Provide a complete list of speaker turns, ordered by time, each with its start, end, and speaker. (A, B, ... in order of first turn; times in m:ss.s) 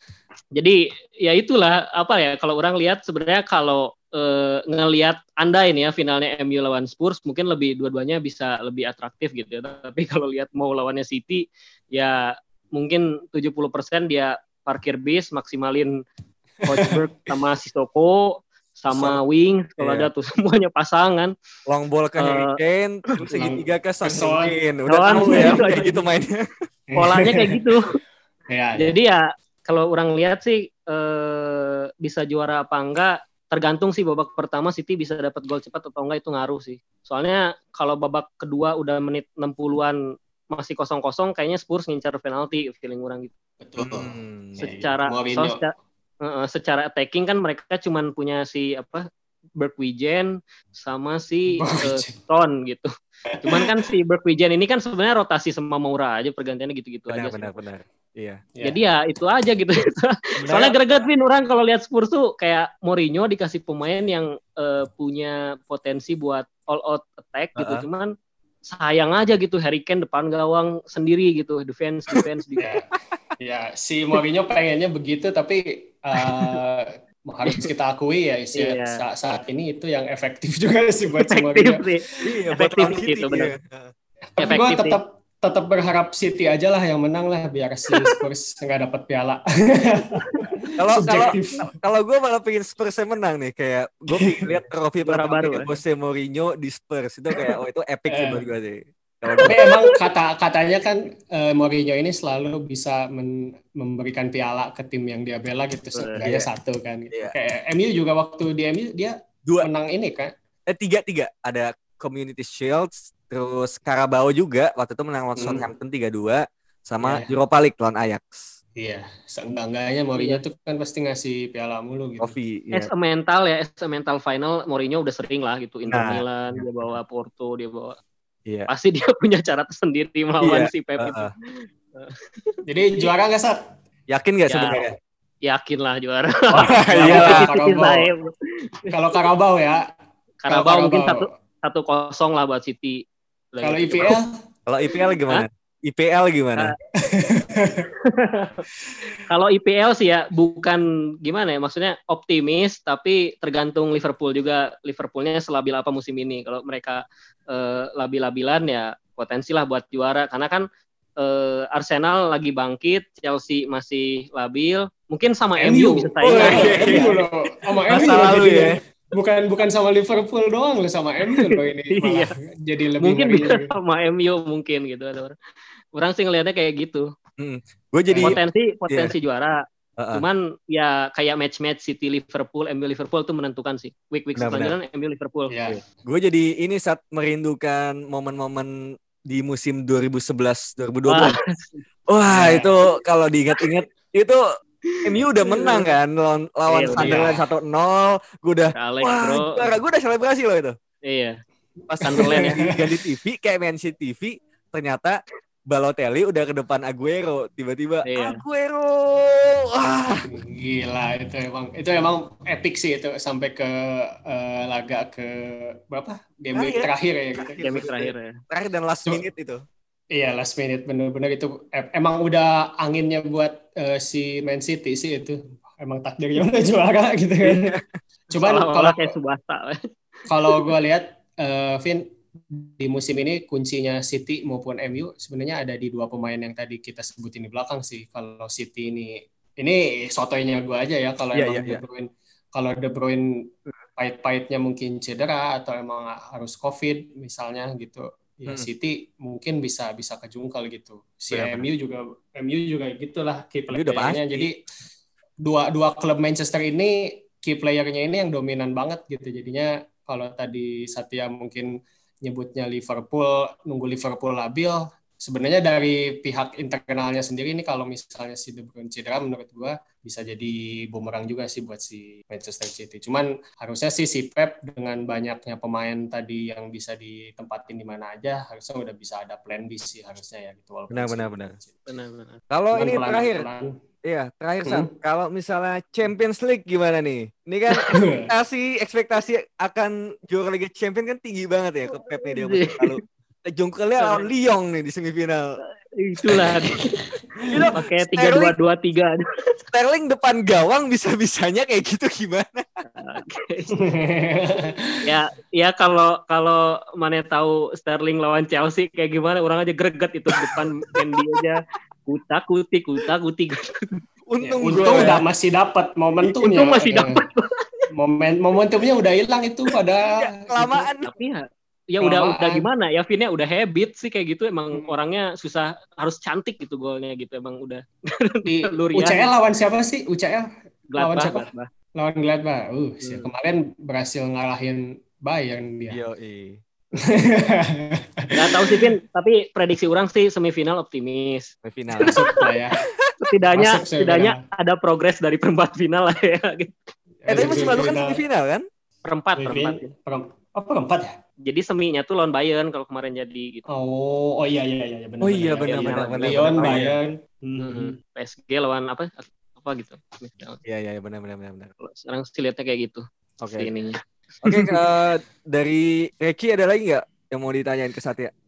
0:00.6-0:16.0 A
0:16.6-0:17.0 B
0:16.6-0:21.3 A
0:19.8-0:20.1 C
0:21.7-0:26.4 C
0:22.2-0:22.6 A
0:23.3-0:24.6 B
0:24.9-0:25.9 A
0:25.2-0:25.6 B
0:26.9-0:27.6 B
0:27.0-0:27.9 A
0:28.5-0:29.0 B
0:28.8-0:40.0 A
0:40.5-0:43.3 A
0:43.6-0:45.6 B
0:43.8-0:44.7 C
0:44.6-0:49.0 A
0:49.6-0:52.9 A
0:51.6-0:52.1 B
0:53.4-0:57.6 A
0:57.1-0:58.4 C
0:58.5-0:58.8 B
0:58.6-1:08.1 A
1:00.4-1:00.8 C
1:07.6-1:07.8 C
1:08.7-1:12.7 A
1:12.6-1:12.9 B
1:13.4-1:21.8 B
1:16.2-1:16.6 A
1:18.5-1:19.0 A
1:21.1-1:23.5 A
1:22.2-1:23.9 C
1:24.4-1:31.7 B
1:24.4-1:25.0 A
1:30.8-1:39.6 C
1:34.1-1:34.6 B
1:35.0-1:35.7 A
1:38.1-1:38.4 B
1:39.4-1:50.3 B
1:45.9-1:46.2 A
1:46.2-1:46.4 C
1:50.7-1:58.5 C
1:55.4-1:55.7 B
1:57.0-1:57.3 B
1:58.8-2:02.3 B
2:00.2-2:00.4 A
2:02.2-2:02.9 C
2:02.7-2:08.0 A
2:05.9-2:06.6 C
2:08.7-2:12.5 A
2:10.4-2:11.3 C
2:12.7-2:13.6 B
2:14.1-2:14.9 C
2:14.5-2:14.8 A
2:15.4-2:18.3 A
2:16.6-2:17.5 C
2:16.9-2:18.1 B
2:18.9-2:19.8 B
2:20.4-2:23.0 A
2:20.5-2:21.3 B
2:23.5-2:24.2 A
2:23.6-2:24.3 B
2:24.7-2:26.7 C
2:27.0-2:27.9 B
2:28.0-2:28.6 A
2:29.3-2:40.6 A
2:41.2-2:47.0 A
2:45.6-2:53.7 B
2:46.2-2:47.2 C
2:47.9-2:48.8 C
2:51.4-2:52.3 A
2:53.0-2:55.3 A
2:55.9-2:57.0 A
2:57.4-2:58.4 C
2:58.1-2:58.4 B
2:58.2-2:59.6 A
2:58.9-2:59.1 C
3:00.0-3:00.2 C
3:00.1-3:05.5 A
3:04.4-3:04.7 C
3:05.5-3:05.8 B
3:05.7-3:08.7 C
3:09.3-3:11.4 C
3:11.1-3:11.8 A
3:12.1-3:14.4 C
3:12.3-3:12.7 B
3:14.9-3:15.9 A
3:15.0-3:20.7 C
3:16.7-3:17.4 A
3:17.0-3:17.4 B
3:18.7-3:19.7 A
3:21.1-3:21.4 A
3:21.9-3:30.3 C
3:22.0-3:22.6 A
3:22.1-3:23.0 B
3:28.0-3:28.4 A
3:30.3-3:37.9 B
3:36.5-3:39.6 C
3:37.6-3:38.4 A
3:40.1-3:47.7 B
3:47.4-3:47.8 C
3:48.3-3:49.1 B
3:48.3-3:49.8 A
3:50.3-4:14.6 B
4:01.3-4:01.8 C
4:11.3-4:11.6 C
4:13.7-4:14.5 C
4:15.4-4:41.8 B
4:40.9-4:41.5 C
4:41.9-4:42.4 A
4:42.5-4:43.4 C
4:42.7-4:43.7 B
4:44.0-4:55.5 C
4:47.9-4:48.3 B
4:52.3-4:53.0 A
4:54.0-4:54.2 A
4:56.0-4:57.1 A
4:57.4-4:57.7 B
4:57.5-4:58.5 C
4:57.7-4:59.2 A
4:59.7-5:02.6 C
5:02.9-5:03.7 A
5:03.8-5:05.0 B
5:05.0-5:13.9 A
5:14.3-5:15.2 C
5:14.4-5:17.1 B
5:16.4-5:17.8 A
5:17.9-5:20.9 B
5:20.2-5:21.1 C
5:21.0-5:29.3 A
5:22.0-5:22.6 B
5:28.4-5:36.0 B
5:30.9-5:31.7 A
5:33.0-5:33.3 A
5:35.9-5:36.6 C
5:37.0-5:38.8 B
5:38.3-5:42.4 A
5:41.6-5:42.2 C
5:42.0-5:42.8 B
5:43.2-5:46.8 A
5:43.5-5:44.4 B
5:47.2-5:48.2 B
5:47.3-5:48.6 C
5:49.0-5:49.9 A
5:49.4-5:51.2 B
5:51.4-5:53.6 A
5:53.7-5:57.9 B
5:55.2-5:57.0 C
5:55.6-5:56.8 A
5:57.6-6:00.6 A
6:00.6-6:01.7 C
6:01.8-6:03.0 A
6:03.4-6:03.7 C
6:03.5-6:04.7 A
6:04.4-6:08.3 C